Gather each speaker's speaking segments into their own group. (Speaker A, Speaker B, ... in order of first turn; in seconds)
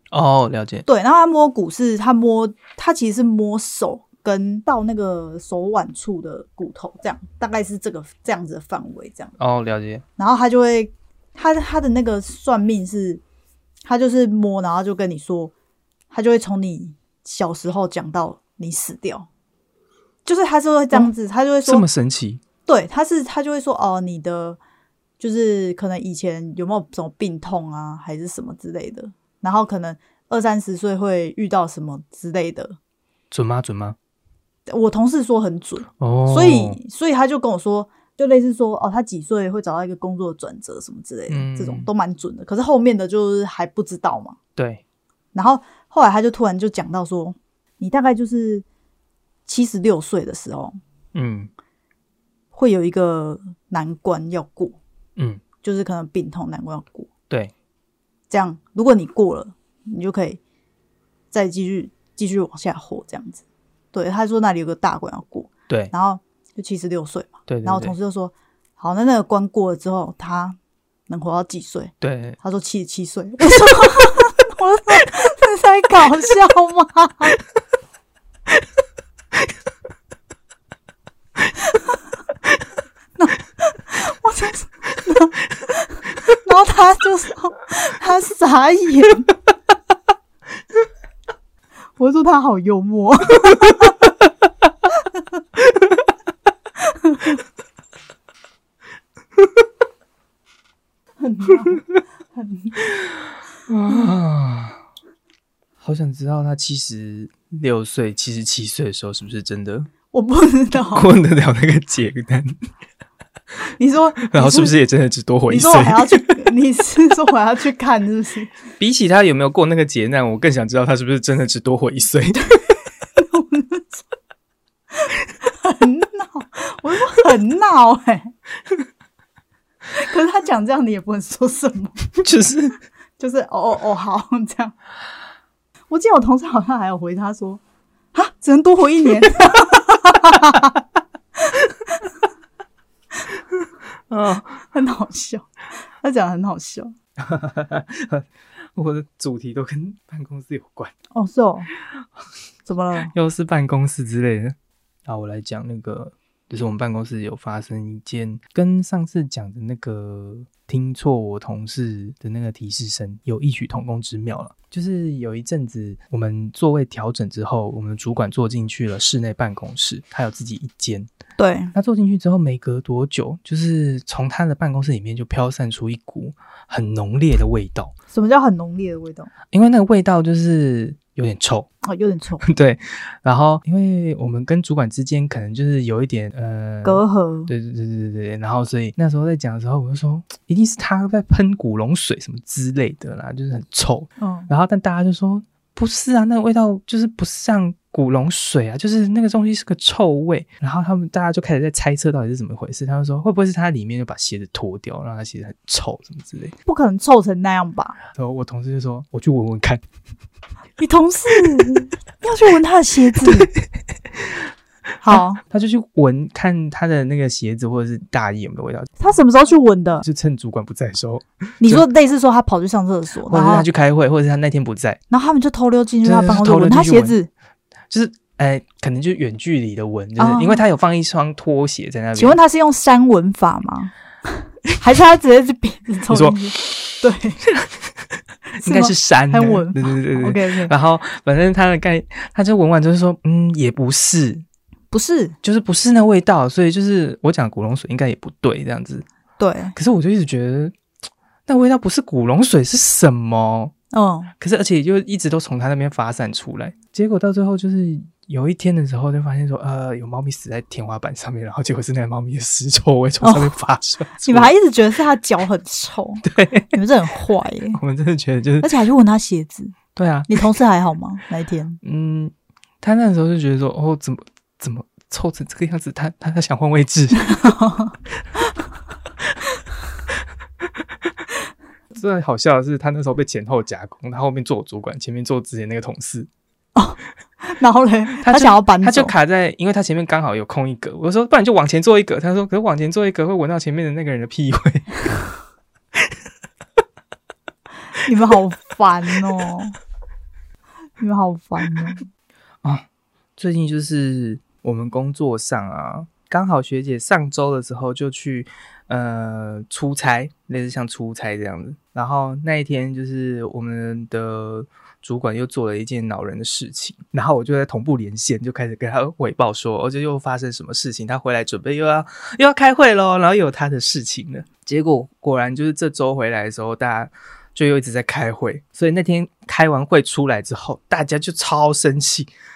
Speaker A: 0.1-0.8, 9.4-10.0, 21.6-22.4, 33.3-34.0, 36.0-36.8, 41.3-41.9, 44.5-44.8, 51.1-51.5, 55.2-55.4, 67.5-67.9, 72.0-72.4, 103.7-104.8, 105.8-109.9, 110.9-112.6, 114.3-116.3, 118.8-122.6, 132.2-132.8, 144.1-144.6, 147.2-150.9, 153.1-154.5, 155.1-171.1, 171.7-177.9, 179.5-181.7, 182.4-206.5, 208.2-209.8, 213.2-213.6, 215.1-218.9, 220.0-221.8, 223.2-225.0, 226.0-227.2, 227.9-232.4, 236.1-237.9, 238.6-244.4, 245.4-249.1, 249.7-250.7, 251.5-253.7, 254.4-264.5, 266.2-266.8, 267.7-268.7, 269.9-270.5, 271.8-277.4, 281.9-286.3, 288.2-294.9, 303.4-332.3
Speaker B: 0.8-9.3, 10.2-13.2, 13.8-15.5, 16.1-19.3, 20.2-21.8, 22.6-24.6, 25.2-32.8, 34.7-44.4, 45.3-48.6, 49.4-50.8, 52.5-54.8, 55.6-57.1, 58.3-60.4, 61.3-70.6, 71.1-77.4, 83.2-89.3, 92.0-94.0, 96.9-97.4, 101.2-102.8, 110.1-111.1, 113.8-114.7, 115.5-118.5, 123.2-124.0, 125.1-128.3, 129.9-132.1, 133.2-134.8, 135.9-137.6, 138.1-140.8, 141.5-142.1, 144.7-145.5, 146.0-146.9, 151.1-151.7, 152.7-153.1, 171.4-171.7, 178.1-179.3, 181.8-182.4, 186.8-187.5, 194.2-194.5, 206.6-207.9, 210.8-213.5, 215.0-215.4, 219.0-220.0, 221.6-223.7, 225.1-227.3, 230.2-230.6, 232.2-237.4, 238.6-240.7, 244.9-245.3, 249.4-249.7, 253.9-254.3, 263.2-263.6, 264.2-267.8, 268.6-269.7, 270.3-271.8, 277.1-277.9, 286.7-289.1, 297.9-299.7, 301.0-302.0